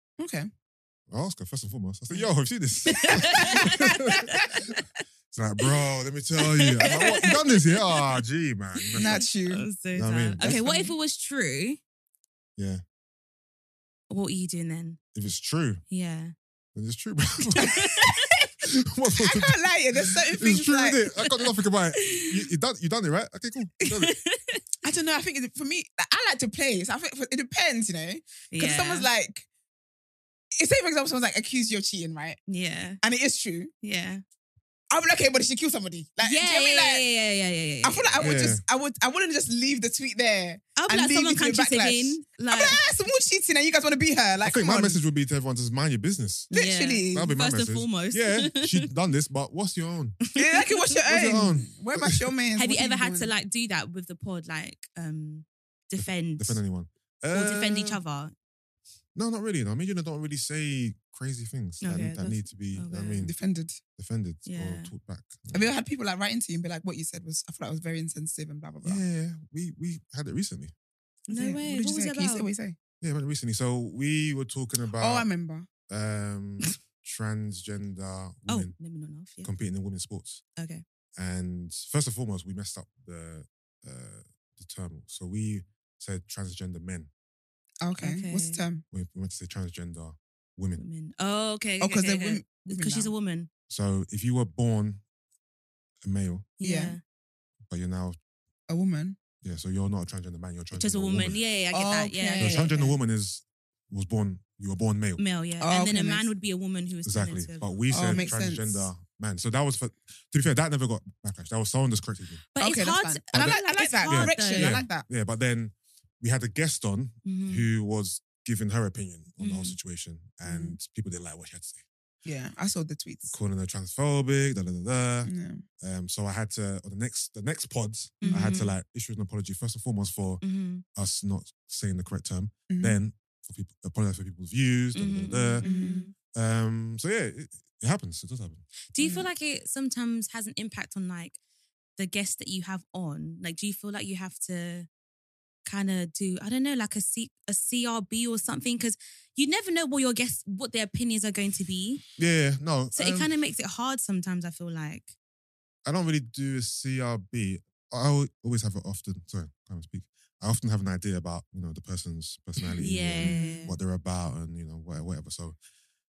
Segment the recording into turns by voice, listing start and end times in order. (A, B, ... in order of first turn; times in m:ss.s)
0:00.2-0:00.5 A
0:01.1-0:04.2 B
0:02.9-0:04.6 C
0:03.3-0:03.7 A
0:05.3-0:09.2 B
0:06.4-0:08.2 C
0:08.8-0:11.8 C
0:09.0-0:09.6 A
0:10.0-0:10.6 B
0:10.4-0:10.9 A
0:12.6-0:12.8 B
0:14.1-0:15.0 C
0:15.1-0:15.8 B
0:15.9-0:16.3 C
0:16.8-0:17.8 B
0:17.6-0:18.4 C
0:18.6-0:19.6 B
0:19.2-0:21.0 A
0:20.1-0:24.2 B
0:22.0-0:22.4 C
0:23.8-0:24.6 C
0:24.8-0:29.5 A
0:28.5-0:29.1 C
0:30.6-0:32.4 A
0:32.5-0:33.0 C
0:33.0-0:33.7 A
0:33.8-0:34.2 C
0:34.9-0:37.0 A
0:36.2-0:38.6 C
0:37.8-0:45.0 A
0:38.2-0:38.6 B
0:40.8-0:42.8 C
0:44.4-0:46.5 B
0:46.5-0:48.9 C
0:46.5-0:47.3 A
0:47.1-0:50.2 B
0:50.3-0:50.7 C
0:50.4-0:53.3 A
0:51.1-0:52.2 B
0:52.6-0:56.6 C
0:56.0-0:58.0 B
0:57.3-0:58.3 C
0:59.2-1:03.3 B
1:01.8-1:03.3 C
1:03.2-1:03.8 A
1:04.0-1:05.7 B
1:04.5-1:04.9 C
1:05.5-1:09.0 A
1:08.8-1:10.7 B
1:11.3-1:12.5 C
1:11.3-1:12.8 A
1:13.0-1:15.3 B
1:15.0-1:15.7 A
1:15.9-1:18.8 B
1:18.5-1:19.5 C
1:19.4-1:20.4 B
1:20.6-1:20.8 C
1:21.2-1:27.1 B
1:27.8-1:28.8 A
1:28.0-1:28.6 C
1:28.9-1:30.8 B
1:30.8-1:33.5 C
1:31.8-1:33.1 A
1:33.7-1:35.0 B
1:36.0-1:36.5 B
1:36.6-1:37.0 C
1:36.6-1:37.0 A
1:37.7-1:38.2 B
1:38.7-1:39.2 A
1:39.4-1:41.4 B
1:40.7-1:42.7 C
1:41.7-1:42.9 A
1:42.4-1:45.2 B
1:45.2-1:48.3 C
1:45.6-1:46.3 A
1:47.0-1:52.4 B
1:47.9-1:48.9 A
1:52.5-1:54.9 C
1:52.6-1:55.1 A
1:53.4-2:01.8 B
1:57.2-1:57.7 C
1:59.4-1:59.8 C
2:00.4-2:00.8 A
2:02.2-2:03.4 A
2:03.3-2:10.4 B
2:05.2-2:05.6 A
2:08.2-2:08.7 C
2:10.4-2:10.8 C
2:11.0-2:15.7 B
2:12.7-2:13.0 A
2:14.9-2:16.1 C
2:15.6-2:16.1 A
2:16.3-2:18.6 B
2:18.9-2:21.4 C
2:19.0-2:19.3 A
2:22.0-2:24.9 C
2:25.6-2:32.0 C
2:32.2-2:33.3 B
2:32.9-2:35.1 C
2:35.9-2:45.6 B
2:42.7-2:43.8 C
2:43.2-2:43.6 A